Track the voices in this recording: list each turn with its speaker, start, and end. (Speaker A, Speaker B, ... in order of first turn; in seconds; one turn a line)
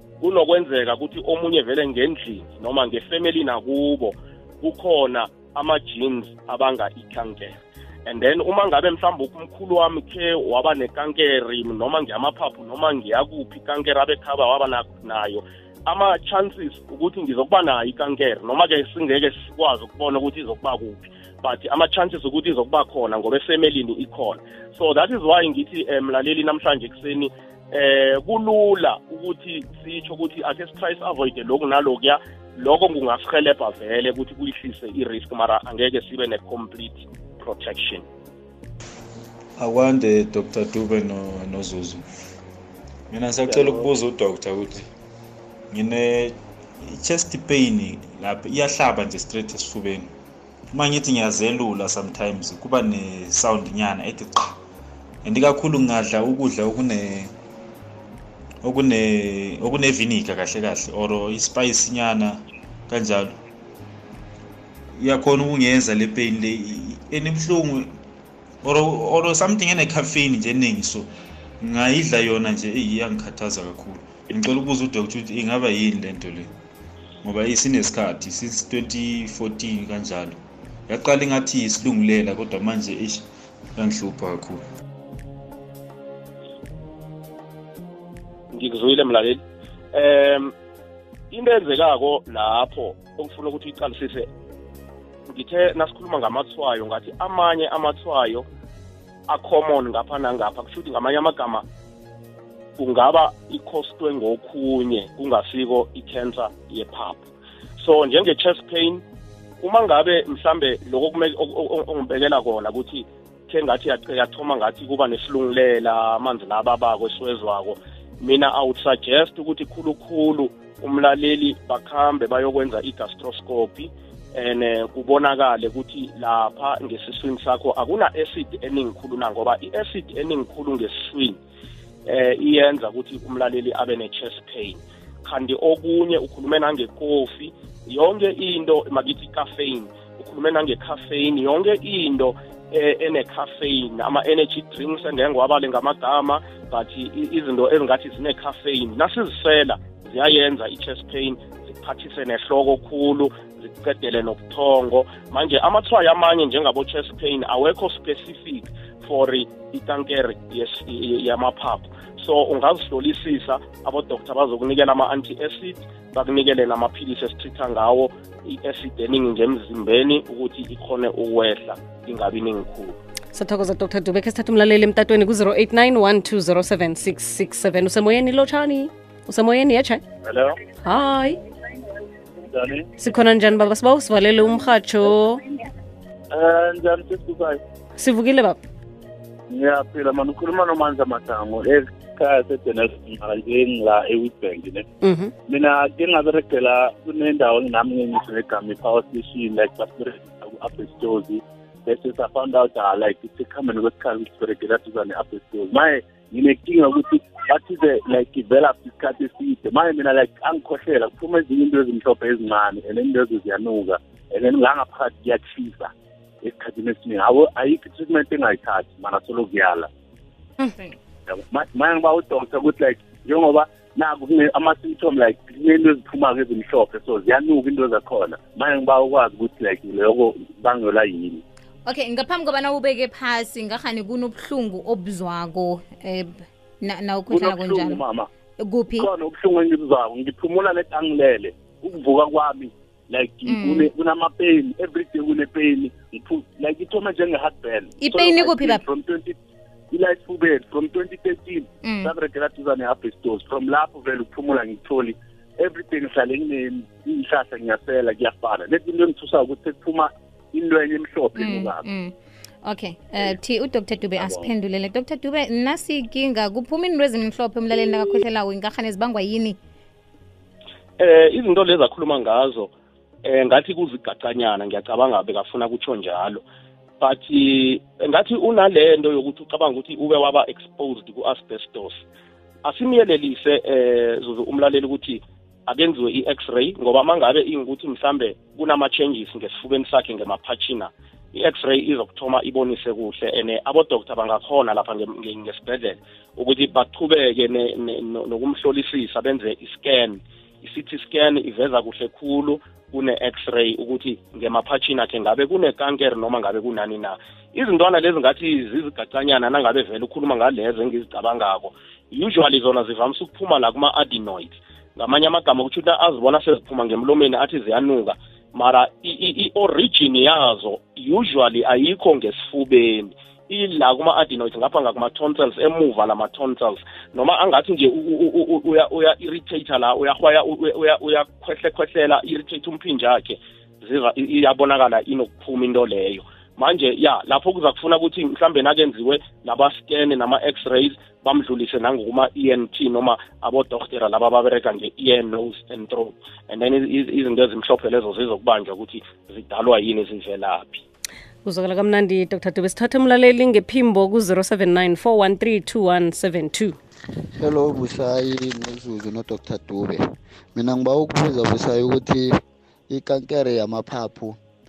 Speaker A: 0.2-38.0
Speaker B: 39.6-42.0
Speaker B: 43.1-44.9
Speaker C: 43.5-43.9
Speaker B: 45.7-50.1
Speaker B: 50.7-54.6
Speaker B: 55.2-57.3
Speaker B: 58.6-63.3
Speaker B: 65.0-67.9
Speaker B: 68.6-71.1
Speaker B: 71.6-76.5
Speaker B: 77.2-80.4
Speaker B: 80.9-84.6
Speaker A: 88.5-89.4
Speaker A: 89.9-90.5
Speaker A: 91.3-94.3
Speaker A: 95.3-98.5
Speaker A: 99.3-101.6
Speaker A: 102.8-107.2
Speaker A: 107.8-109.0
Speaker A: 109.6-131.4
Speaker A: 132.1-173.0
Speaker D: 173.3-180.0
Speaker C: 180.2-180.6
Speaker D: 180.8-181.4
Speaker C: 182.4-182.9
Speaker D: 183.0-185.4
Speaker C: 186.3-187.6
Speaker D: 188.0-188.6
Speaker C: 189.5-194.8
Speaker D: 195.0-195.3
Speaker C: 195.5-215.9
Speaker C: 216.4-219.9
Speaker E: 220.6-220.9
Speaker C: 221.3-231.4
Speaker E: 231.9-238.0
Speaker C: 237.3-238.3
Speaker E: 238.6-239.1
Speaker C: 238.9-249.4
Speaker E: 243.5-243.9
Speaker E: 248.0-248.8
Speaker C: 249.9-261.8
Speaker E: 251.8-252.1
Speaker E: 261.4-262.1
Speaker E: 262.6-269.6
Speaker C: 264.2-264.5
Speaker A: 271.0-272.7
Speaker A: 273.2-276.4
Speaker A: 277.0-282.0
Speaker A: 282.6-350.8
Speaker D: 351.4-356.8
Speaker F: 357.2-364.4